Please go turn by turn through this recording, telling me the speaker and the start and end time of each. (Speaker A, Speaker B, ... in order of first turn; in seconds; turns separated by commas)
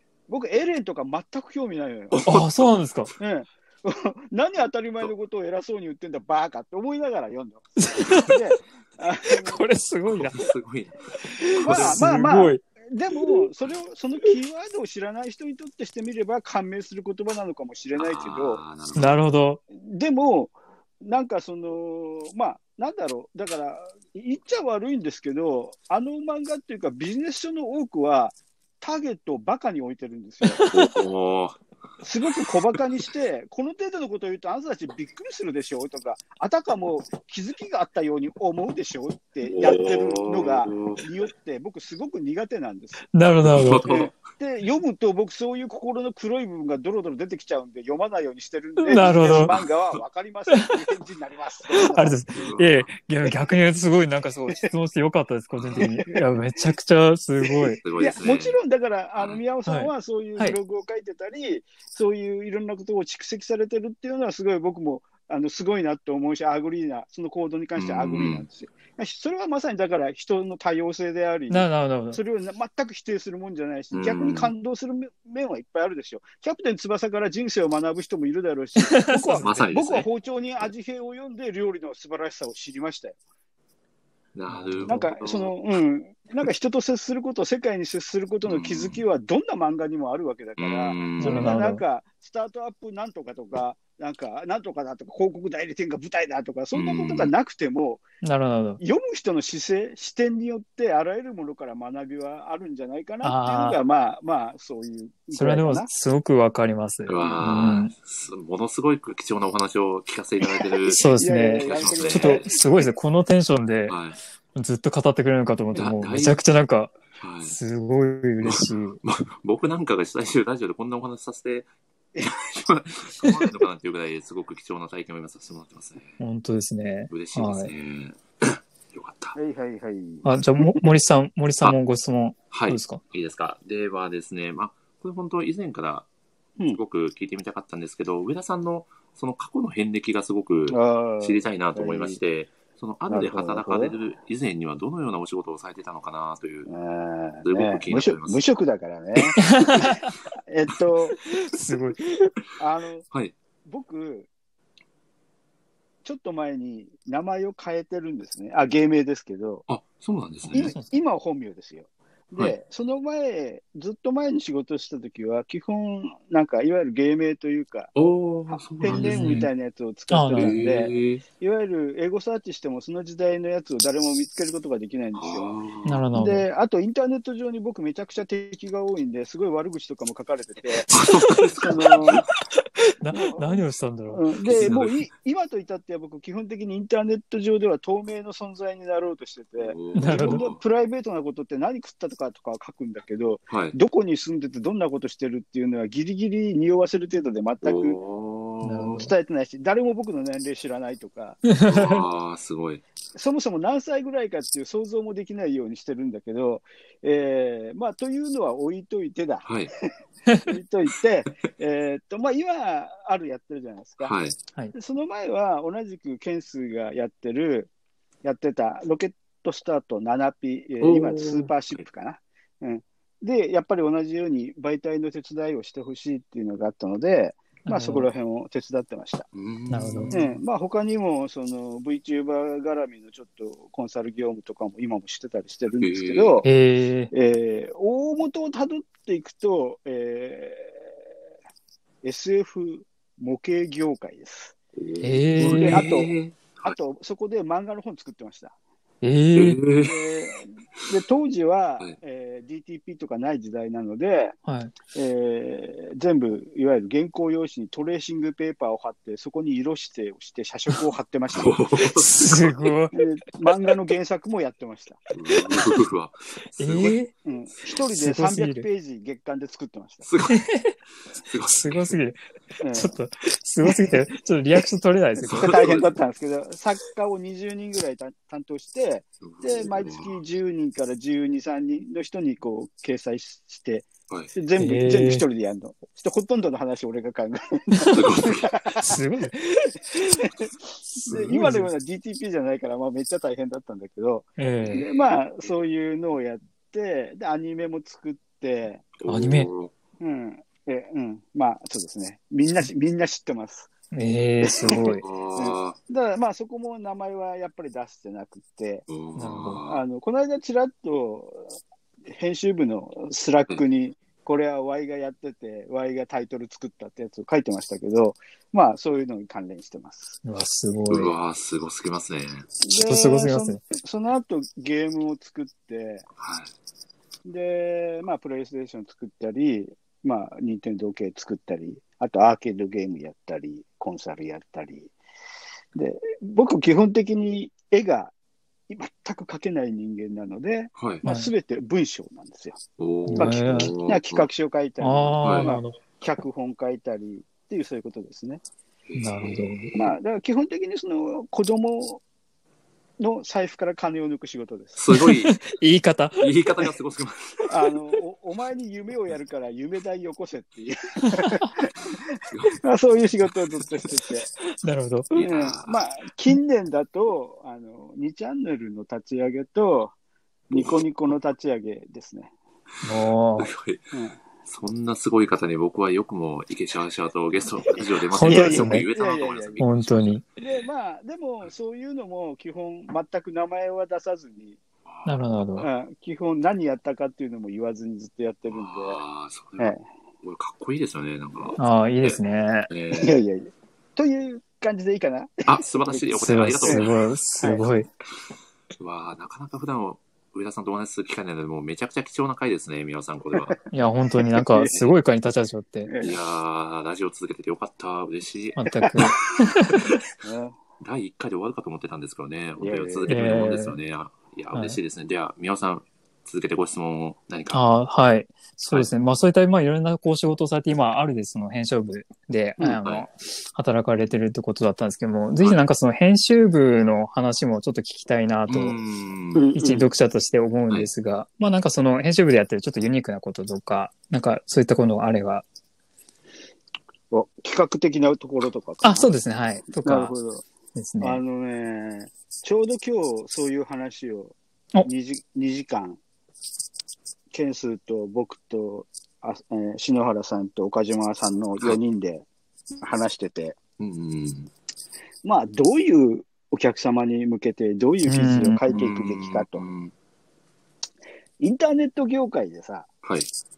Speaker A: 0.3-2.2, Speaker B: 2.1-2.7, Speaker C: 2.2-3.1, Speaker A: 3.2-9.7, Speaker C: 7.8-8.4, Speaker C: 9.3-10.5, Speaker B: 10.1-12.1, Speaker C: 11.5-12.6, Speaker A: 11.6-18.6, Speaker B: 18.0-19.2, Speaker C: 19.0-19.6, Speaker A: 19.7-30.7, Speaker C: 30.4-30.9, Speaker B: 30.7-31.6, Speaker A: 32.0-43.1, Speaker B: 39.4-41.0, Speaker C: 43.1-44.1, Speaker B: 43.4-44.1, Speaker A: 43.9-52.2, Speaker C: 48.8-49.5, Speaker B: 49.3-50.0, Speaker C: 50.5-50.8, Speaker C: 51.7-57.8, Speaker B: 52.3-52.9, Speaker B: 55.5-55.9, Speaker A: 55.8-56.2, Speaker A: 57.4-83.2, Speaker B: 57.8-58.6, Speaker C: 59.7-60.6, Speaker B: 67.8-68.5, Speaker C: 71.5-72.2, Speaker B: 73.9-74.5, Speaker C: 78.8-79.7, Speaker B: 79.4-80.1, Speaker B: 84.3-85.5, Speaker C: 84.5-85.0, Speaker A: 84.9-98.1, Speaker B: 88.5-89.0, Speaker B: 90.6-91.6, Speaker C: 91.2-91.8, Speaker B: 96.7-97.3, Speaker C: 98.2-98.8, Speaker A: 98.8-105.9, Speaker C: 103.2-103.8, Speaker C: 105.3-107.9, Speaker B: 107.1-112.5, Speaker C: 110.9-114.0, Speaker A: 111.2-112.7, Speaker B: 113.9-114.2, Speaker C: 114.5-119.0, Speaker B: 115.8-116.4, Speaker B: 117.2-117.6, Speaker B: 118.4-126.2, Speaker C: 126.2-127.7, Speaker B: 127.1-129.4, Speaker A: 129.3-130.8, Speaker C: 130.2-133.0, Speaker B: 132.5-136.1, Speaker B: 136.7-146.7, Speaker A: 140.7-142.2, Speaker A: 143.1-144.0, Speaker A: 146.7-149.9, Speaker B: 147.4-148.4, Speaker C: 149.4-150.1, Speaker A: 150.5-151.3, Speaker C: 151.4-152.0, Speaker A: 152.6-153.1, Speaker A: 153.7-154.3, Speaker A: 156.1-159.7, Speaker B: 159.7-160.8, Speaker A: 160.5-167.9, Speaker B: 167.9-169.5, Speaker A: 168.5-175.5, Speaker C: 168.9-169.5, Speaker C: 170.1-170.6, Speaker B: 170.3-171.2, Speaker B: 175.2-176.1, Speaker C: 175.9-176.5, Speaker A: 176.1-180.9, Speaker B: 180.9-182.3, Speaker A: 181.6-182.3, Speaker C: 183.0-184.7, Speaker A: 183.1-198.0, Speaker B: 184.4-185.0, Speaker B: 189.6-190.6, Speaker C: 189.9-190.4, Speaker B: 193.5-193.8, Speaker B: 197.6-199.0, Speaker C: 198.6-199.1, Speaker A: 198.9-201.6, Speaker C: 201.5-202.1, Speaker B: 201.7-202.8, Speaker A: 203.1-209.9, Speaker B: 209.4-209.7, Speaker C: 210.3-210.5, Speaker A: 210.4-214.1, Speaker B: 214.0-214.4, Speaker A: 214.7-217.7, Speaker A: 218.2-229.3, Speaker B: 220.8-221.8, Speaker C: 227.7-228.1, Speaker B: 229.3-230.2, Speaker C: 229.7-230.4, Speaker A: 230.1-236.5, Speaker B: 235.8-236.4, Speaker C: 236.4-237.1, Speaker A: 237.1-240.9, Speaker A: 242.0-244.6, Speaker B: 244.8-246.8, Speaker C: 245.0-245.9, Speaker A: 245.4-248.6, Speaker C: 249.0-249.6, Speaker B: 249.3-250.1, Speaker A: 249.8-254.4, Speaker C: 254.4-254.8, Speaker A: 254.9-261.6, Speaker B: 261.3-262.7, Speaker C: 262.1-262.9, Speaker A: 262.9-265.1, Speaker B: 265.1-267.0, Speaker C: 266.6-267.1, Speaker A: 267.2-270.1, Speaker C: 267.9-268.7, Speaker B: 270.1-270.5, Speaker C: 270.3-270.8, Speaker B: 271.1-272.0, Speaker C: 271.5-272.2, Speaker A: 272.6-273.0, Speaker C: 272.7-275.7, Speaker B: 275.3-275.9, Speaker A: 275.3-290.5, Speaker B: 279.2-280.2, Speaker C: 284.6-285.2, Speaker C: 287.8-288.1, Speaker B: 287.9-288.6, Speaker C: 288.8-289.4, Speaker C: 291.1-291.7, Speaker A: 291.1-298.9, Speaker C: 294.4-294.9, Speaker B: 294.6-294.9, Speaker B: 299.0-299.7, Speaker C: 299.1-299.5, Speaker A: 300.0-303.7, Speaker C: 303.9-305.0, Speaker A: 304.4-308.9, Speaker B: 304.6-305.8, Speaker B: 308.9-309.8, Speaker C: 309.2-309.6, Speaker A: 309.6-320.2, Speaker C: 320.2-321.1, Speaker B: 320.9-322.5, Speaker A: 322.6-326.1, Speaker C: 322.8-323.6, Speaker B: 326.2-326.5, Speaker A: 327.2-334.9, Speaker A: 335.8-338.1, Speaker A: 338.7-342.6, Speaker B: 340.8-341.1, Speaker C: 341.0-341.3, Speaker B: 342.8-344.3, Speaker C: 343.1-343.7, Speaker A: 343.1-348.4, Speaker C: 344.8-345.8, Speaker B: 345.2-345.5, Speaker B: 348.9-349.8, Speaker C: 349.0-349.7, Speaker A: 349.8-352.0, Speaker A: 353.0-354.8, Speaker B: 354.8-355.4, Speaker C: 355.0-356.7, Speaker B: 356.2-357.6, Speaker A: 357.5-364.3, Speaker C: 361.1-361.5, Speaker B: 362.3-362.6, Speaker C: 364.6-365.2, Speaker B: 365.1-365.8, Speaker A: 365.2-369.9, Speaker A: 370.5-372.3, Speaker B: 370.5-371.1, Speaker C: 372.8-373.5, Speaker B: 373.4-373.9, Speaker A: 373.9-374.2, Speaker B: 374.4-380.2, Speaker A: 377.7-379.6, Speaker C: 378.1-378.9, Speaker C: 379.6-380.2, Speaker A: 380.4-384.6, Speaker B: 384.9-385.2, Speaker C: 385.1-385.7, Speaker A: 385.6-389.0, Speaker B: 388.5-393.2, Speaker C: 391.6-392.7, Speaker A: 392.9-396.1, Speaker B: 395.5-396.9, Speaker C: 396.1-397.9, Speaker A: 397.4-397.7, Speaker B: 398.8-403.6, Speaker C: 403.7-405.9, Speaker A: 404.2-404.8, Speaker A: 405.9-406.2, Speaker B: 406.0-408.6, Speaker C: 408.6-409.9, Speaker B: 409.6-410.0, Speaker A: 410.2-410.6, Speaker B: 410.8-417.6, Speaker A: 412.6-413.3, Speaker C: 413.1-413.8, Speaker C: 414.5-414.8, Speaker C: 417.5-428.8, Speaker B: 422.8-423.1, Speaker B: 428.5-429.5, Speaker A: 429.4-429.9, Speaker C: 429.5-435.4, Speaker A: 437.1-439.1, Speaker C: 438.8-440.1, Speaker A: 439.7-440.4, Speaker C: 440.8-441.2, Speaker A: 441.0-446.0, Speaker A: 447.3-452.2, Speaker A: 452.8-453.6, Speaker B: 453.8-454.5, Speaker A: 455.2-459.7, Speaker C: 458.1-458.6, Speaker B: 458.7-459.9, Speaker A: 461.4-462.9, Speaker B: 463.0-463.3